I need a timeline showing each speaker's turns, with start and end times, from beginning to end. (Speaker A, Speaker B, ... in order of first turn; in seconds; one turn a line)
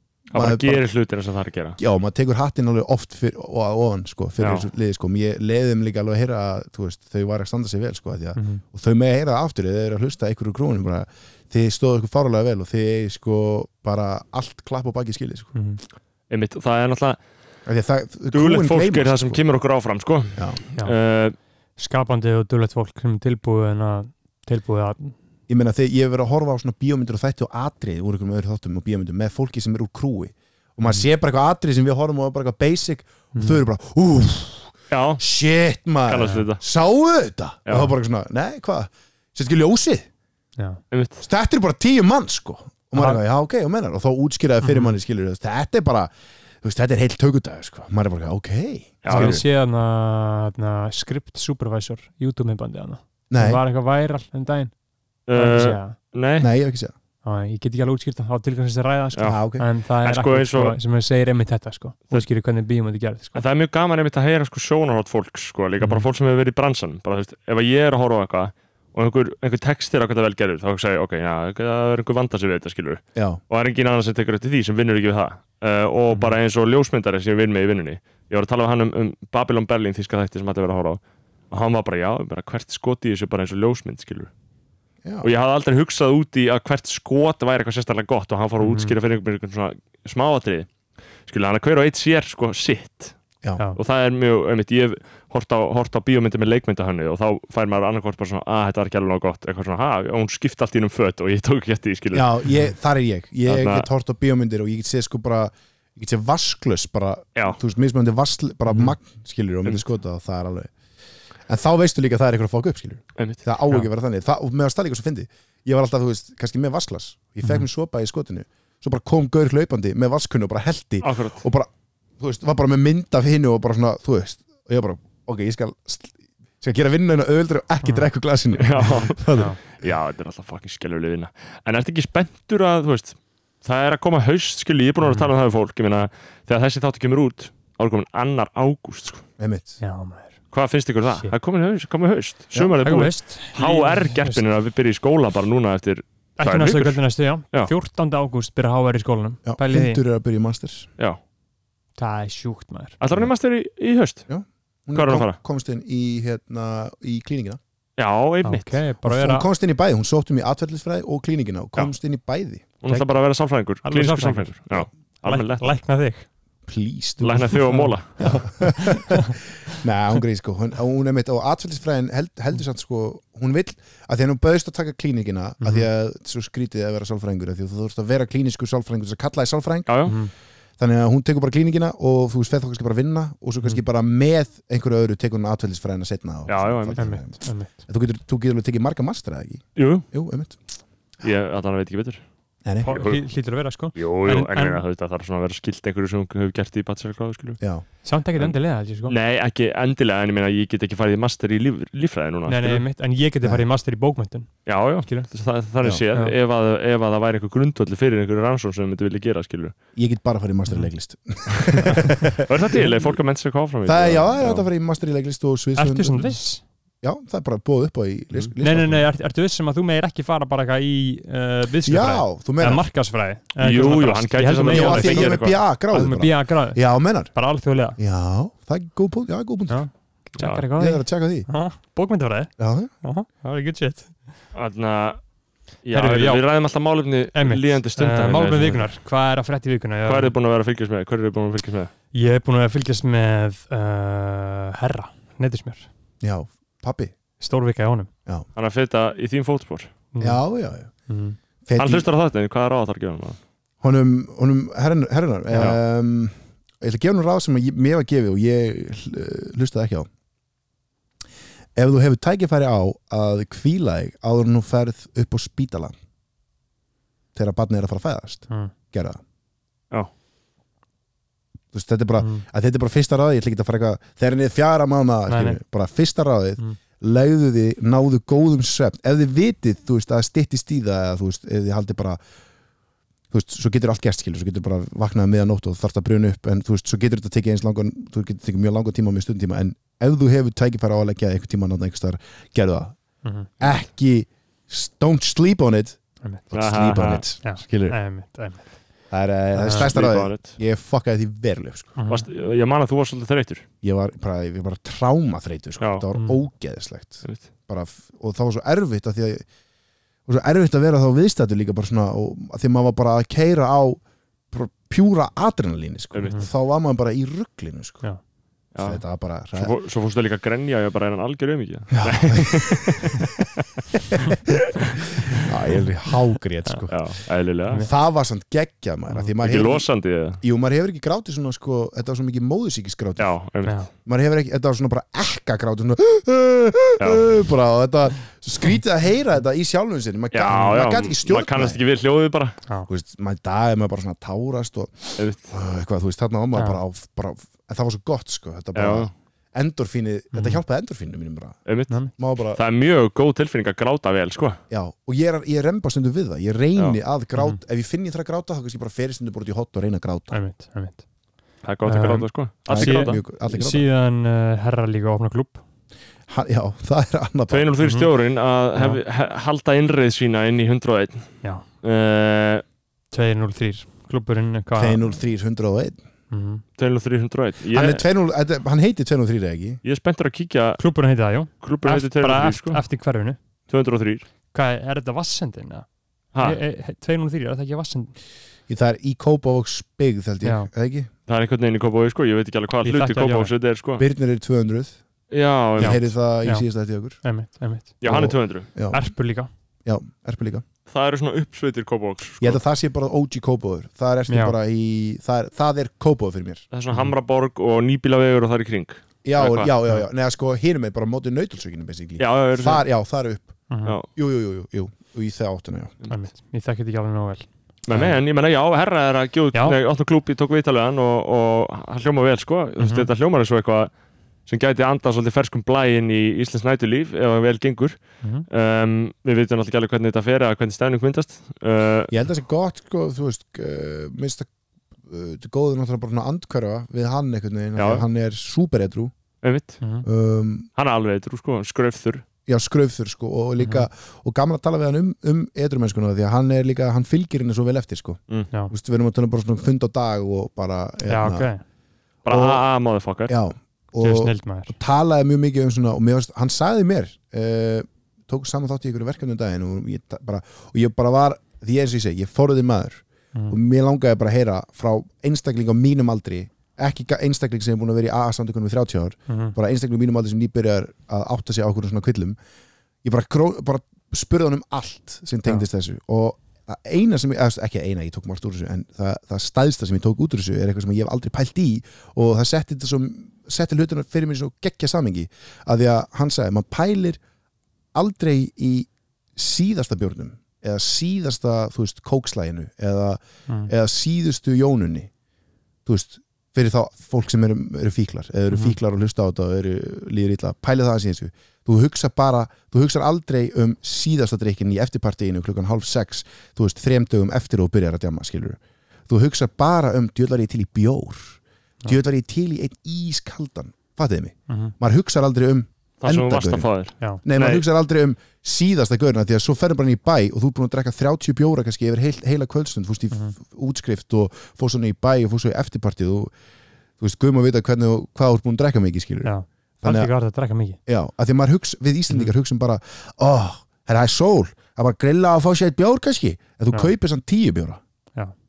Speaker A: 0.3-1.8
Speaker B: 0.3-0.8
Speaker B: 1.8-15.5
Speaker A: 4.4-4.7
Speaker C: 8.3-8.6
Speaker C: 15.5-15.8
Speaker A: 16.3-17.2
Speaker B: 17.6-19.4
Speaker A: 18.3-21.4
Speaker C: 21.8-25.1
Speaker B: 25.5-40.1
Speaker C: 33.3-33.6
Speaker A: 34.9-35.2
Speaker A: 36.0-36.6
Speaker A: 37.6-37.9
Speaker A: 40.9-41.2
Speaker B: 41.2-46.1
Speaker C: 42.9-43.2
Speaker C: 44.6-45.0
Speaker B: 46.6-49.4
Speaker A: 49.0-49.4
Speaker C: 49.1-54.7
Speaker B: 53.3-53.6
Speaker A: 55.3-56.5
Speaker C: 55.3-56.0
Speaker B: 56.4-56.9
Speaker C: 57.2-63.4
Speaker A: 59.1-59.4
Speaker B: 59.2-59.7
Speaker A: 60.0-60.8
Speaker A: 63.3-84.3
Speaker C: 65.8-66.0
Speaker B: 73.1-73.4
Speaker A: 85.2-90.7
Speaker C: 88.6-89.0
Speaker A: 91.2-93.2
Speaker A: 93.7-102.3
Speaker B: 102.1-110.7
Speaker A: 103.5-103.9
Speaker C: 108.7-108.9
Speaker B: 111.5-129.5
Speaker A: 113.2-113.4
Speaker A: 121.0-121.4
Speaker C: 127.8-128.1
Speaker A: 128.6-139.2
Speaker C: 135.0-135.3
Speaker B: 139.4-139.8
Speaker C: 139.8-140.3
Speaker A: 140.5-147.0
Speaker C: 142.8-144.4
Speaker C: 146.4-150.0
Speaker B: 149.4-150.9
Speaker C: 151.9-153.0
Speaker A: 153.0-154.2
Speaker B: 154.3-157.6
Speaker A: 154.9-155.4
Speaker A: 158.0-158.8
Speaker C: 158.4-159.5
Speaker B: 159.0-162.7
Speaker A: 162.8-165.7
Speaker C: 163.8-166.3
Speaker B: 166.7-180.1
Speaker A: 167.2-168.4
Speaker C: 167.7-169.3
Speaker C: 175.6-175.9
Speaker A: 179.9-180.2
Speaker C: 180.1-180.3
Speaker B: 180.8-190.6
Speaker A: 186.5-187.1
Speaker C: 187.0-187.8
Speaker A: 189.8-190.1
Speaker A: 191.2-192.2
Speaker B: 192.6-193.0
Speaker C: 192.8-194.8
Speaker A: 192.8-193.2
Speaker A: 193.9-197.6
Speaker B: 197.6-197.8
Speaker C: 198.0-199.1
Speaker A: 199.1-202.8
Speaker C: 202.5-205.3
Speaker A: 204.6-209.8
Speaker B: 209.9-212.4
Speaker A: 211.6-214.7
Speaker B: 213.8-216.4
Speaker C: 215.8-216.6
Speaker B: 217.0-219.0
Speaker C: 218.6-228.0
Speaker B: 221.8-222.8
Speaker A: 223.6-225.6
Speaker B: 224.7-227.3
Speaker B: 228.0-229.8
Speaker C: 229.7-234.1
Speaker A: 230.4-230.6
Speaker B: 230.8-231.5
Speaker B: 232.6-232.9
Speaker A: 234.5-235.2
Speaker A: 235.8-238.9
Speaker C: 235.9-236.4
Speaker C: 237.3-240.3
Speaker A: 240.1-241.9
Speaker C: 242.1-245.9
Speaker B: 246.2-247.1
Speaker C: 247.4-248.1
Speaker A: 248.5-249.9
Speaker C: 250.1-250.4
Speaker B: 250.2-250.9
Speaker C: 251.1-251.4
Speaker B: 251.6-252.1
Speaker A: 251.8-253.4
Speaker B: 253.8-260.1
Speaker C: 255.5-255.8
Speaker B: 261.8-265.9
Speaker B: 267.3-269.2
Speaker B: 271.7-282.2
Speaker C: 272.2-272.4
Speaker C: 275.3-275.6
Speaker B: 283.3-293.0
Speaker C: 293.2-293.5
Speaker B: 293.6-298.0
Speaker A: 296.5-297.2
Speaker C: 297.4-298.7
Speaker B: 299.1-302.0
Speaker C: 299.5-299.9
Speaker A: 299.7-300.6
Speaker C: 301.9-302.2
Speaker A: 302.1-303.6
Speaker B: 303.8-309.4
Speaker A: 305.8-306.0
Speaker C: 306.1-306.4
Speaker B: 310.3-314.0
Speaker B: 314.5-318.0
Speaker A: 316.1-316.4
Speaker A: 318.7-319.0
Speaker B: 318.8-319.7
Speaker A: 319.5-323.6
Speaker B: 321.9-323.2
Speaker B: 324.1-324.7
Speaker A: 324.8-325.4
Speaker B: 325.3-327.1
Speaker A: 326.9-327.8
Speaker B: 327.8-329.9
Speaker A: 329.4-330.4
Speaker B: 330.4-333.4
Speaker A: 333.2-333.9
Speaker B: 334.0-341.8
Speaker A: 337.0-337.3
Speaker A: 340.3-342.6
Speaker B: 342.9-352.6
Speaker A: 345.2-345.5
Speaker C: 346.5-346.8
Speaker A: 348.7-349.1
Speaker C: 350.3-350.6
Speaker A: 351.6-352.0
Speaker A: 352.5-354.6
Speaker B: 354.7-360.4
Speaker C: 360.3-361.0
Speaker A: 361.6-363.2
Speaker C: 361.8-365.6
Speaker B: 362.7-363.8
Speaker B: 366.3-367.7
Speaker A: 367.5-372.6
Speaker C: 367.8-368.1
Speaker C: 373.1-375.0
Speaker B: 374.7-376.0
Speaker C: 376.3-376.6
Speaker A: 376.8-378.0
Speaker B: 377.7-379.8
Speaker A: 379.8-380.8
Speaker C: 380.8-383.4
Speaker A: 381.6-382.8
Speaker A: 383.7-384.2
Speaker C: 384.5-385.9
Speaker A: 386.3-386.6
Speaker C: 386.4-388.1
Speaker B: 388.7-391.1
Speaker C: 390.4-390.7
Speaker A: 391.3-394.0
Speaker C: 392.8-393.5
Speaker B: 394.0-395.0
Speaker A: 395.3-396.1
Speaker B: 395.8-397.2
Speaker C: 395.8-396.7
Speaker C: 397.2-398.0
Speaker A: 398.0-398.7
Speaker B: 398.0-399.0
Speaker C: 398.9-399.5
Speaker B: 399.8-400.6
Speaker A: 400.9-402.6
Speaker B: 402.4-406.6
Speaker C: 404.3-404.6
Speaker A: 406.7-409.7
Speaker B: 409.2-413.6
Speaker A: 412.2-412.9
Speaker C: 413.7-414.0
Speaker B: 414.1-415.9
Speaker C: 416.1-418.1
Speaker A: 417.8-423.9
Speaker C: 422.8-423.1
Speaker A: 424.4-432.1
Speaker B: 432.1-434.5
Speaker B: 435.1-439.1
Speaker A: 437.8-438.0
Speaker A: 439.4-439.8
Speaker C: 439.8-440.1
Speaker B: 440.0-440.7
Speaker A: 440.8-442.2
Speaker B: 442.5-451.5
Speaker C: 443.6-443.9
Speaker C: 451.1-451.6
Speaker A: 452.2-453.3
Speaker B: 452.3-452.6
Speaker B: 453.3-472.4
Speaker C: 454.0-454.7
Speaker C: 469.3-469.5
Speaker B: 473.0-487.2
Speaker B: 487.9-495.1
Speaker B: 495.9-516.7
Speaker C: 498.5-498.8
Speaker A: 516.0-517.6
Speaker B: 517.2-526.3
Speaker B: 527.0-530.1
Speaker C: 529.2-530.8
Speaker B: 530.9-537.8
Speaker C: 532.1-532.3